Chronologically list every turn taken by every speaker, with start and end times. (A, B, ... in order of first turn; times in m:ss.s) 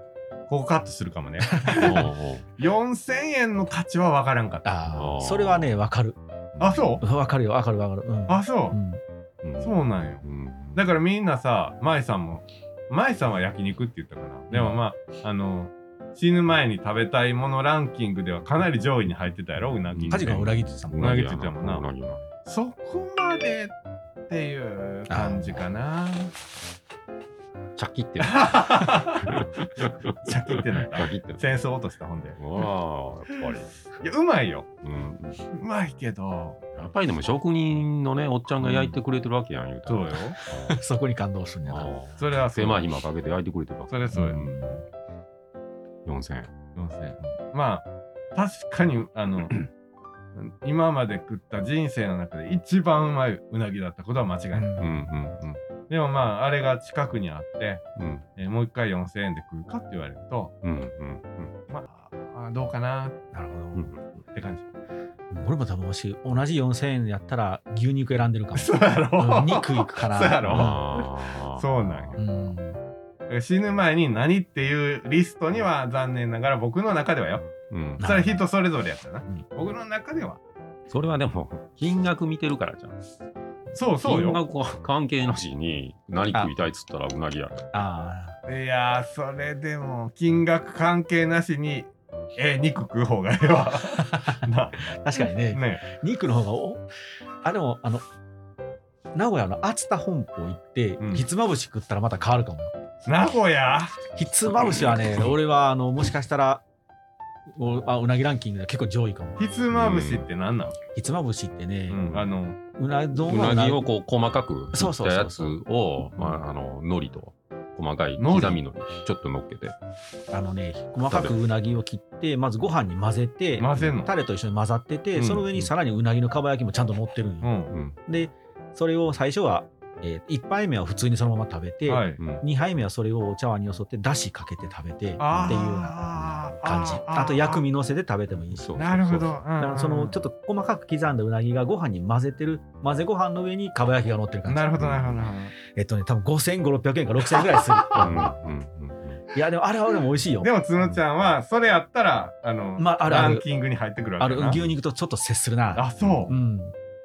0:00.5-0:02.0 A
0:01.4-0:02.1 B
0:01.8-0:02.5 C
0:02.6-0:04.7 A
0:04.6-0:06.2 B
0:04.9-0:05.7 C
0:06.6-0:06.8 C
0:06.6-0:07.0 A
0:07.0-0:09.0 B
0:08.3-0:08.8 A
0:09.4-0:10.8 C
0:09.6-0:20.4 A
0:19.9-0:22.3 C
0:20.1-0:21.1 B
0:20.9-0:21.8 A
0:22.4-0:23.7 A
0:24.3-0:26.3 A
0:25.1-0:25.6 B
0:27.8-0:31.6 C
0:28.2-0:32.4 A
0:32.4-0:33.7 C
0:33.3-0:34.7 A
0:34.8-0:35.4 C
0:35.5-0:36.6 A
0:36.7-0:40.8 C
0:38.6-0:39.0 A
0:39.8-0:40.4 A
0:40.4-0:41.9 B
0:41.7-0:44.5 C
0:42.2-0:42.9 A
0:43.9-0:44.6 A
0:44.1-0:44.8 B
0:46.0-0:46.5 C
0:46.8-0:49.6 A
0:50.3-0:54.8 A
0:54.5-0:55.1 B
0:54.8-0:55.5 C
0:55.9-0:57.8 A
0:58.0-0:58.2 C
0:58.4-1:00.5 A
1:00.6-1:01.5 C
1:01.7-1:03.2 A
1:03.3-1:03.9 B
1:03.7-1:04.2 C
1:04.3-1:04.7 A
1:05.3-1:10.8 B
1:08.5-1:12.2 A
1:10.4-1:12.3 C
1:12.2-1:12.8 B
1:13.3-1:20.4 A
1:17.7-1:18.0 C
1:18.0-1:18.4 B
1:20.9-1:23.0 C
1:23.7-1:24.4 A
1:24.0-1:27.7 C
1:27.7-1:28.4 B
1:28.5-1:34.8 A
1:33.9-1:36.8 B
1:35.4-1:35.8 A
1:37.4-1:38.0 B
1:39.1-1:42.7 B
1:41.0-1:41.2 A
1:43.0-1:44.0 A
1:44.2-1:46.6 B
1:47.5-1:49.4 B
1:49.4-1:50.8 A
1:49.7-1:50.3 C
1:50.9-1:52.1 B
1:51.9-1:52.6 A
1:52.8-1:53.9 B
1:53.3-1:59.8 C
1:54.7-1:55.6 B
1:58.2-1:58.6 A
2:00.3-2:07.5 B
2:01.1-2:01.4 C
2:03.6-2:04.1 A
2:05.2-2:05.5 A
2:07.4-2:07.7 A
2:07.7-2:08.0 C
2:08.0-2:18.7 B
2:11.8-2:12.2 A
2:12.2-2:12.4 C
2:15.2-2:17.6 A
2:18.5-2:19.4 C
2:18.8-2:20.2 A
2:19.6-2:24.7 B
2:24.5-2:25.5 A
2:24.8-2:25.2 C
2:25.6-2:28.3 B
2:27.9-2:29.2 C
2:29.3-2:30.5 B
2:30.4-2:34.6 A
2:32.8-2:33.4 B
2:34.2-2:36.7 B
2:35.8-2:36.3 A